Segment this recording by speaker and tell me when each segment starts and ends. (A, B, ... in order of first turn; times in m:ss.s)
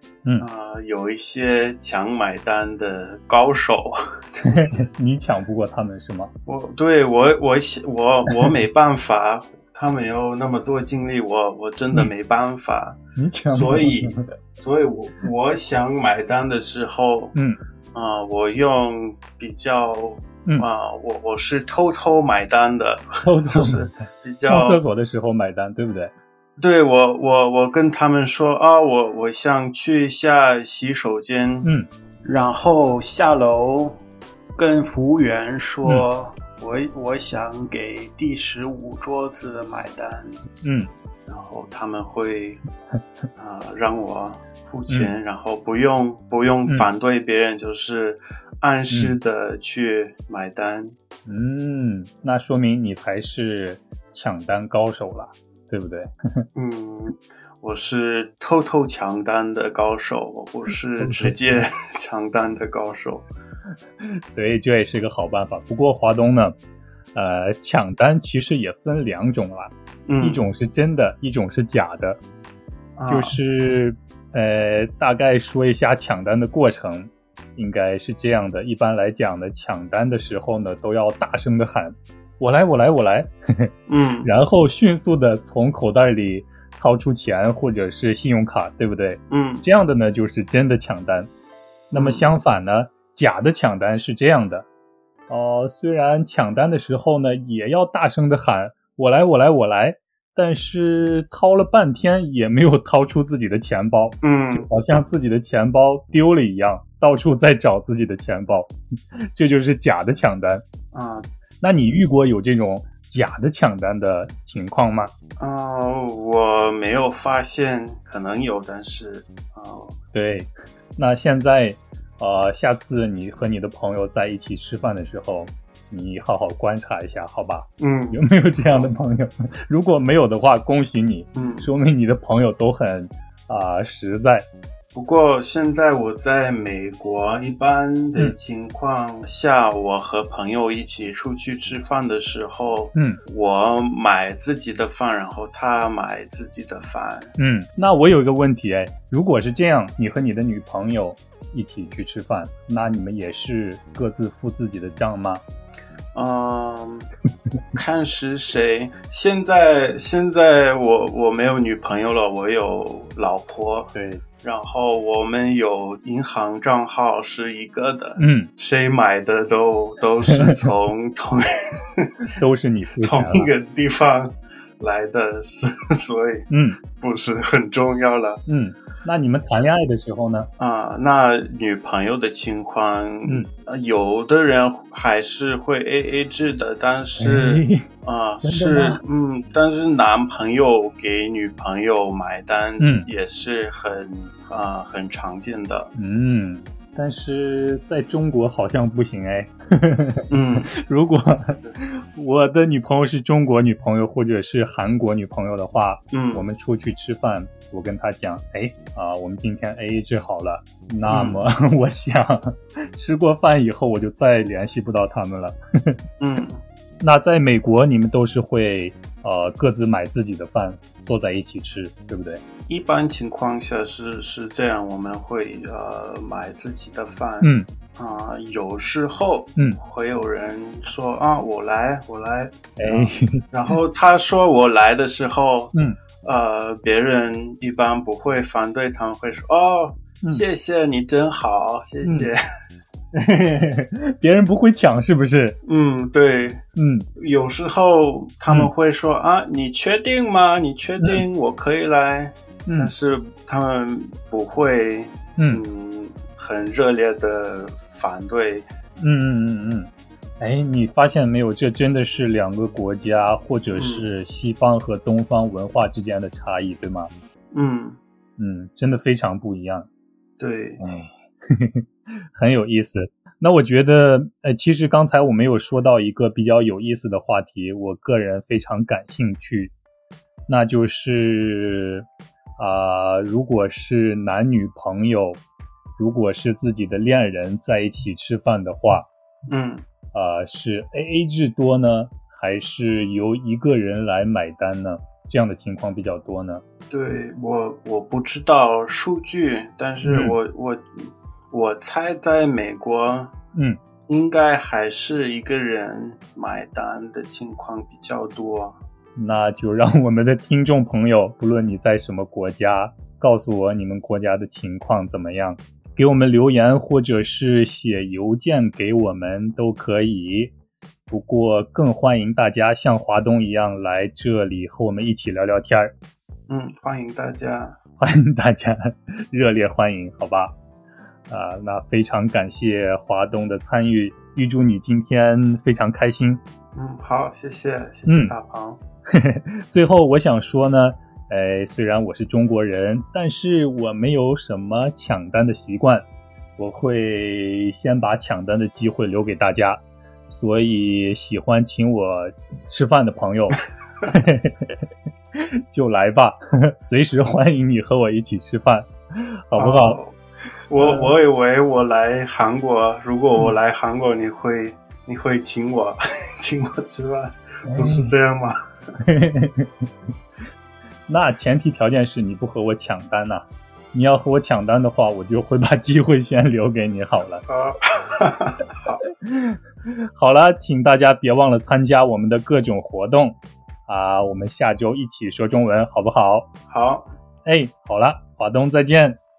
0:00.4-0:04.7 A
0:04.5-0:06.3 B
0:06.4-0:17.3 A
0:13.2-0:14.2 B
0:17.9-0:24.8 A
0:23.2-0:23.8 B
0:24.4-0:26.1 B
0:26.6-0:31.7 A
0:31.6-0:31.9 B
0:32.2-0:34.0 A
0:34.6-0:40.4 A
0:40.6-0:40.9 B
0:41.3-0:42.6 A
0:43.4-0:50.9 A
0:51.3-0:56.4 B
0:56.5-1:03.3 A
1:01.0-1:01.7 B
1:04.3-1:06.6 B
1:07.1-1:12.2 B
1:10.1-1:10.4 A
1:13.0-1:13.4 A
1:13.1-1:23.7 B
1:23.9-1:24.3 A
1:24.2-1:31.3 B
1:29.3-1:29.6 A
1:31.9-1:34.7 B
1:31.9-1:32.3 A
1:35.3-1:48.7 B
1:44.2-1:44.7 A
1:49.3-1:50.6 B
1:50.9-1:51.3 A
1:51.6-1:55.1 B
1:55.4-2:00.0 A
2:00.1-2:14.5 B
2:07.8-2:08.9 A
2:11.3-2:11.7 A
2:14.9-2:27.3 A
2:22.9-2:23.2 B
2:27.4-2:35.4 B
2:36.1-2:37.1 A
2:37.7-2:52.1 A
2:43.9-2:44.2 B
2:48.2-2:48.5 B
2:52.4-2:53.5 B
2:53.0-2:58.4 A
2:56.5-2:56.8 B
2:58.5-3:00.5 B
3:00.6-3:15.9 A
3:07.2-3:07.8 B
3:08.4-3:09.0 B
3:12.8-3:13.1 B
3:16.0-3:36.0 B
3:20.3-3:20.7 A
3:26.1-3:26.4 A
3:31.1-3:31.4 A
3:36.2-3:36.6 A
3:37.0-3:42.4 B
3:42.7-4:02.4 A
3:47.4-3:47.7 B
3:52.8-3:53.4 B
4:02.0-4:02.3 B
4:03.1-4:05.6 B
4:05.6-4:06.6 A
4:06.8-4:07.1 B
4:07.2-4:18.7 A
4:12.7-4:12.9 B
4:15.4-4:15.6 B
4:19.0-4:27.1 B
4:23.7-4:24.0 A
4:27.5-4:28.0 A
4:28.4-4:29.9 B
4:30.4-4:30.8 A
4:30.8-4:39.7 B
4:40.5-4:42.1 B
4:42.6-4:45.4 B
4:46.0-4:49.1 B
4:49.5-4:49.8 A
4:50.1-4:56.6 B
4:56.9-5:03.3 A
5:00.0-5:00.4 B
5:04.1-5:08.8 A
5:09.2-5:20.5 B
5:21.1-5:25.9 B
5:26.5-5:27.8 A
5:28.0-5:30.5 B
5:31.3-5:36.4 B
5:36.7-5:38.8 A
5:38.1-5:38.3 B
5:39.1-5:54.9 B
5:55.7-6:00.0 B
5:59.5-6:00.2 A
6:00.7-6:08.5 A
6:00.8-6:01.1 B
6:07.7-6:08.1 B
6:09.0-6:09.8 B
6:11.1-6:17.4 B
6:17.5-6:19.0 A
6:19.2-6:19.6 B
6:20.1-6:26.5 B
6:26.7-6:27.1 A
6:27.4-6:29.2 B